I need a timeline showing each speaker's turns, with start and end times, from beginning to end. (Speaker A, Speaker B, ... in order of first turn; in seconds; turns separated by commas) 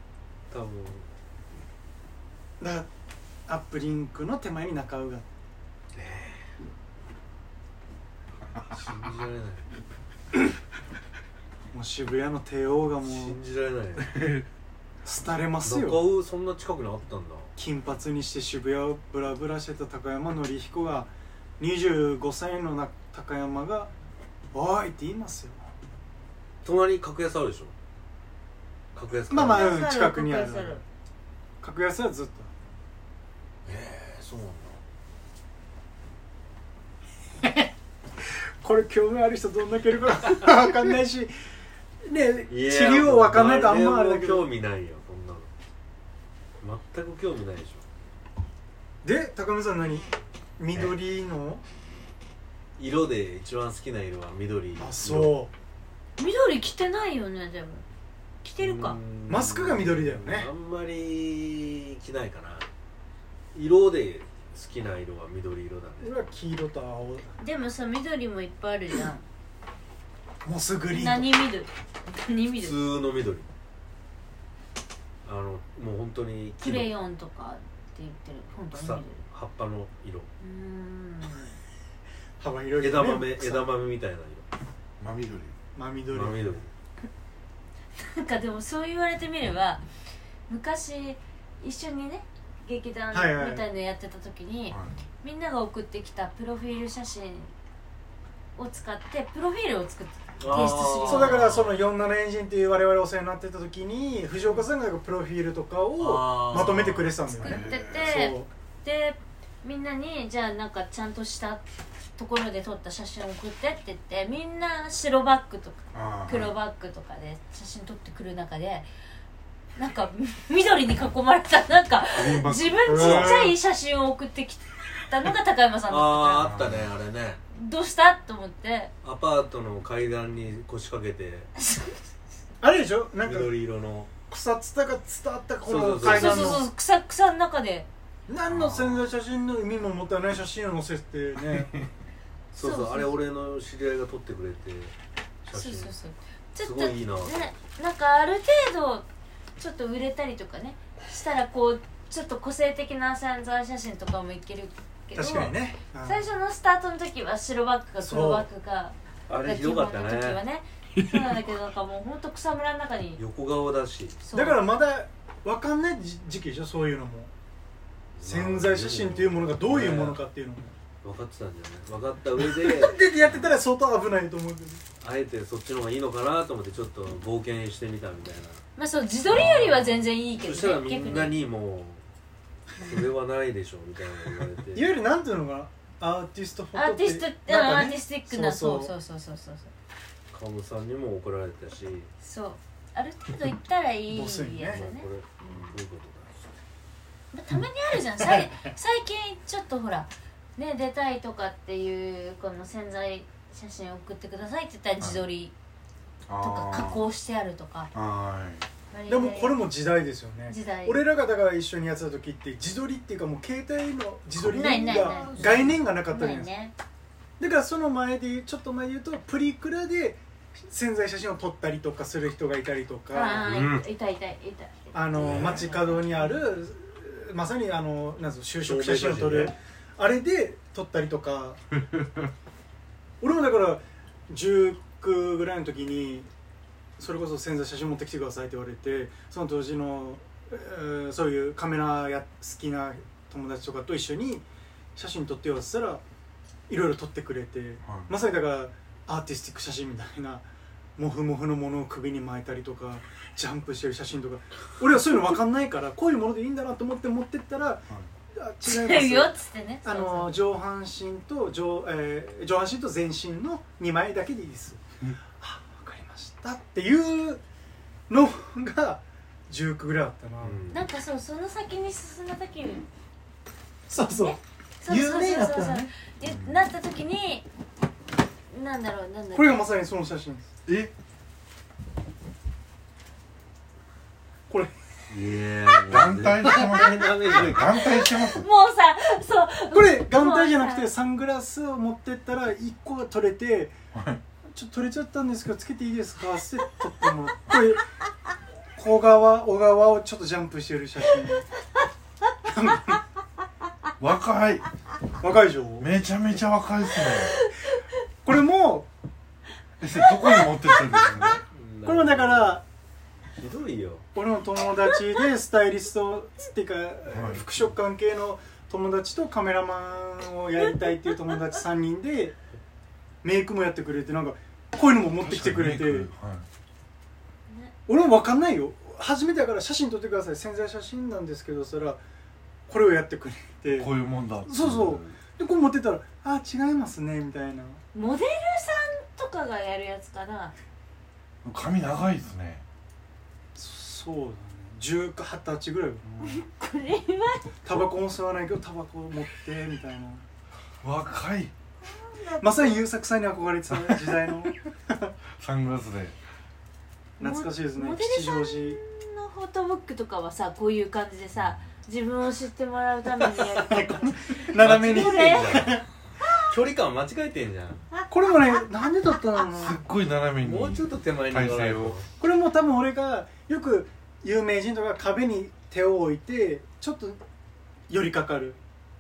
Speaker A: 0.5-1.1, Speaker B: 2.6-2.9, Speaker B: 3.5-5.3, Speaker A: 6.0-6.5, Speaker A: 8.7-9.7, Speaker B: 11.7-13.4, Speaker A: 13.0-14.1, Speaker C: 14.0-14.5, Speaker B: 15.0-16.0, Speaker A: 15.6-17.5, Speaker B: 17.6-23.9, Speaker B: 24.5-25.6, Speaker A: 26.6-27.7, Speaker A: 28.9-29.8, Speaker B: 29.3-30.8, Speaker D: 29.5-30.8, Speaker B: 31.6-32.5, Speaker A: 33.7-34.8, Speaker B: 37.4-37.7, Speaker B: 38.6-41.3, Speaker B: 42.1-44.5, Speaker A: 42.5-45.5, Speaker A: 46.6-47.9, Speaker B: 49.0-51.6, Speaker A: 52.8-55.4, Speaker B: 54.8-55.5, Speaker D: 56.2-57.9, Speaker D: 58.4-59.0, Speaker A: 58.6-62.7, Speaker B: 59.3-60.5, Speaker A: 63.5-66.2, Speaker B: 66.0-67.3, Speaker D: 67.4-69.3, Speaker B: 70.4-71.3, Speaker D: 70.9-72.8, Speaker A: 72.5-73.5, Speaker A: 75.2-76.9, Speaker D: 76.6-79.2, Speaker A: 78.7-80.3, Speaker D: 80.4-81.6, Speaker B: 82.4-83.7, Speaker A: 82.8-84.5, Speaker C: 85.0-85.5, Speaker B: 85.8-86.5, Speaker A: 86.1-86.7, Speaker D: 88.0-89.8, Speaker D: 90.5-97.5, Speaker B: 93.1-93.6, Speaker C: 94.7-95.0, Speaker D: 98.6-101.4, Speaker A: 100.4-101.8, Speaker B: 100.7-108.5, Speaker D: 104.4-104.7, Speaker A: 106.0-107.2, Speaker D: 107.2-111.6, Speaker C: 107.4-108.2, Speaker D: 112.2-118.9, Speaker C: 115.9-116.5, Speaker D: 119.8-126.6, Speaker C: 122.1-123.5, Speaker B: 122.9-123.6, Speaker A: 123.0-123.3, Speaker A: 125.9-127.4, Speaker C: 126.4-126.9, Speaker D: 127.5-128.9, Speaker A: 129.0-131.5, Speaker D: 131.6-132.0, Speaker B: 132.6-133.6, Speaker A: 133.2-134.1, Speaker B: 134.2-136.7, Speaker A: 135.6-136.4, Speaker D: 136.0-137.9, Speaker B: 138.3-141.7, Speaker C: 138.5-139.0, Speaker C: 141.6-141.8, Speaker A: 142.5-144.9, Speaker D: 142.6-143.2, Speaker A: 145.4-145.9, Speaker D: 145.5-149.1, Speaker A: 146.6-147.5, Speaker D: 149.6-163.2, Speaker B: 155.2-156.3, Speaker B: 158.0-158.5, Speaker A: 159.3-160.4, Speaker C: 161.0-161.4, Speaker A: 163.2-164.2, Speaker D: 164.2-164.6, Speaker B: 164.3-167.3, Speaker A: 168.2-170.2, Speaker B: 168.2-170.8, Speaker A: 171.0-173.6, Speaker B: 172.4-174.8, Speaker A: 175.0-178.6, Speaker D: 178.8-181.4, Speaker A: 179.3-182.0, Speaker A: 182.8-184.9, Speaker B: 184.7-188.9, Speaker D: 186.8-189.7, Speaker A: 190.3-192.1, Speaker D: 192.2-195.5, Speaker B: 194.1-194.9, Speaker A: 194.7-196.6, Speaker D: 197.3-205.5, Speaker B: 198.2-198.7, Speaker C: 206.3-207.0, Speaker D: 206.4-207.9, Speaker C: 207.9-208.7, Speaker D: 208.9-209.6, Speaker B: 209.1-216.5, Speaker D: 210.5-211.0, Speaker D: 214.4-216.7, Speaker B: 217.4-223.5, Speaker D: 223.1-225.9, Speaker A: 223.3-223.8, Speaker B: 224.9-231.6, Speaker A: 225.2-226.3, Speaker A: 228.6-229.5, Speaker B: 233.2-236.3, Speaker B: 237.0-244.4, Speaker B: 245.0-246.0, Speaker B: 246.7-250.5, Speaker C: 247.8-248.1, Speaker B: 251.0-267.4, Speaker D: 258.7-260.4, Speaker B: 268.1-270.6, Speaker A: 270.4-270.8, Speaker D: 270.7-272.9, Speaker B: 273.9-275.9, Speaker D: 274.0-277.5, Speaker C: 276.2-276.7, Speaker D: 278.5-279.6, Speaker B: 279.3-280.5, Speaker C: 280.7-280.9, Speaker A: 285.1-287.9, Speaker C: 285.9-288.5, Speaker D: 287.6-290.9, Speaker B: 289.7-293.8, Speaker C: 293.9-294.2, Speaker B: 294.5-297.8, Speaker B: 298.8-301.5, Speaker B: 302.5-303.0, Speaker C: 304.0-304.7, Speaker B: 305.2-305.9, Speaker C: 305.8-307.4, Speaker D: 307.1-307.8, Speaker B: 308.2-308.9, Speaker C: 309.8-311.4, Speaker D: 310.3-311.0, Speaker A: 311.0-312.6, Speaker B: 311.9-312.6, Speaker A: 313.4-314.1, Speaker B: 314.1-322.4, Speaker C: 317.1-317.5, Speaker B: 323.2-326.1, Speaker C: 325.2-326.5, Speaker D: 327.5-327.7, Speaker B: 327.9-332.0, Speaker B: 332.7-337.8, Speaker C: 333.7-335.2, Speaker D: 337.9-340.5, Speaker C: 341.4-342.6, Speaker B: 343.6-346.5, Speaker D: 346.2-347.6, Speaker B: 347.6-350.2, Speaker C: 350.8-351.5, Speaker D: 351.9-352.9, Speaker B: 352.4-355.1, Speaker C: 353.7-354.4, Speaker C: 355.4-356.2, Speaker B: 357.2-358.8, Speaker D: 357.2-365.8, Speaker A: 363.2-363.6, Speaker B: 363.6-365.9, Speaker A: 364.6-365.8, Speaker A: 366.4-367.9, Speaker B: 368.1-369.8, Speaker C: 369.4-372.0, Speaker A: 370.4-372.1, Speaker B: 372.2-377.2, Speaker B: 377.9-378.6